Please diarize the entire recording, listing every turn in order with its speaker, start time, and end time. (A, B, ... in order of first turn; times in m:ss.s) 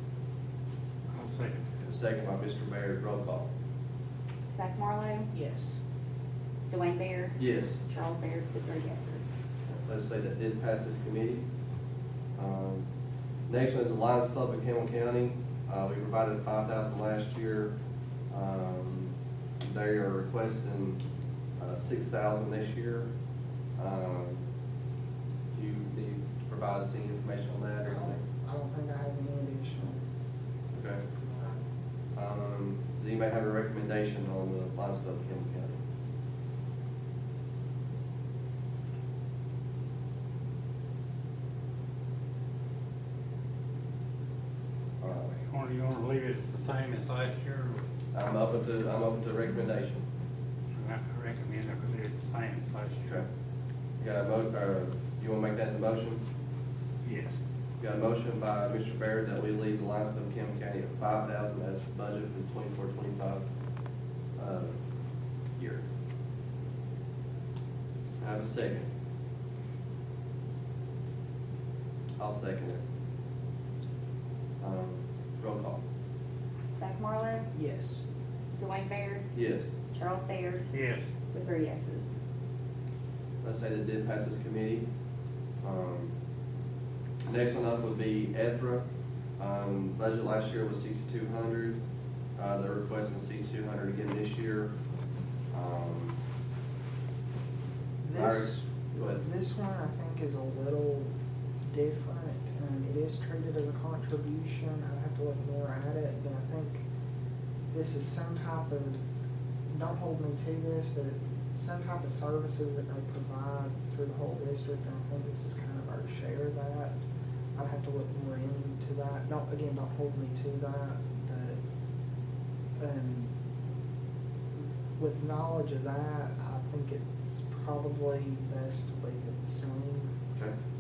0:01.1-0:01.6 A
0:01.8-0:03.5 B
0:04.5-0:05.3 C
0:05.3-0:05.8 D
0:06.7-0:09.3 C
0:07.4-0:07.8 B
0:09.8-0:11.4 B
0:12.3-0:12.8 B
0:13.5-0:17.7 B
0:18.3-0:21.0 B
0:21.6-0:23.1 B
0:23.8-0:24.4 B
0:25.5-0:28.2 B
0:27.9-0:30.0 D
0:30.7-0:31.0 B
0:31.2-0:31.6 D
0:32.1-0:35.8 B
0:45.0-0:45.3 B
0:45.4-0:47.8 A
0:48.1-0:50.0 B
0:50.7-0:53.2 A
0:54.0-0:56.2 B
0:57.0-0:57.3 A
0:57.8-1:03.4 B
1:04.4-1:04.8 B
1:05.6-1:05.8 B
1:08.2-1:08.9 B
1:12.2-1:12.8 B
1:14.6-1:15.8 B
1:16.8-1:17.5 C
1:17.5-1:18.0 D
1:18.6-1:19.2 C
1:19.3-1:19.7 B
1:19.9-1:20.6 C
1:20.7-1:21.0 A
1:21.3-1:22.1 C
1:23.4-1:24.8 B
1:25.6-1:26.1 B
1:27.2-1:28.8 B
1:29.4-1:31.8 B
1:32.4-1:34.7 B
1:35.5-1:36.2 B
1:38.0-1:41.1 D
1:38.1-1:39.2 B
1:41.7-1:46.8 D
1:47.7-1:49.0 D
1:49.7-1:57.0 D
1:57.5-2:01.6 D
2:02.8-2:03.3 D
2:05.0-2:10.1 D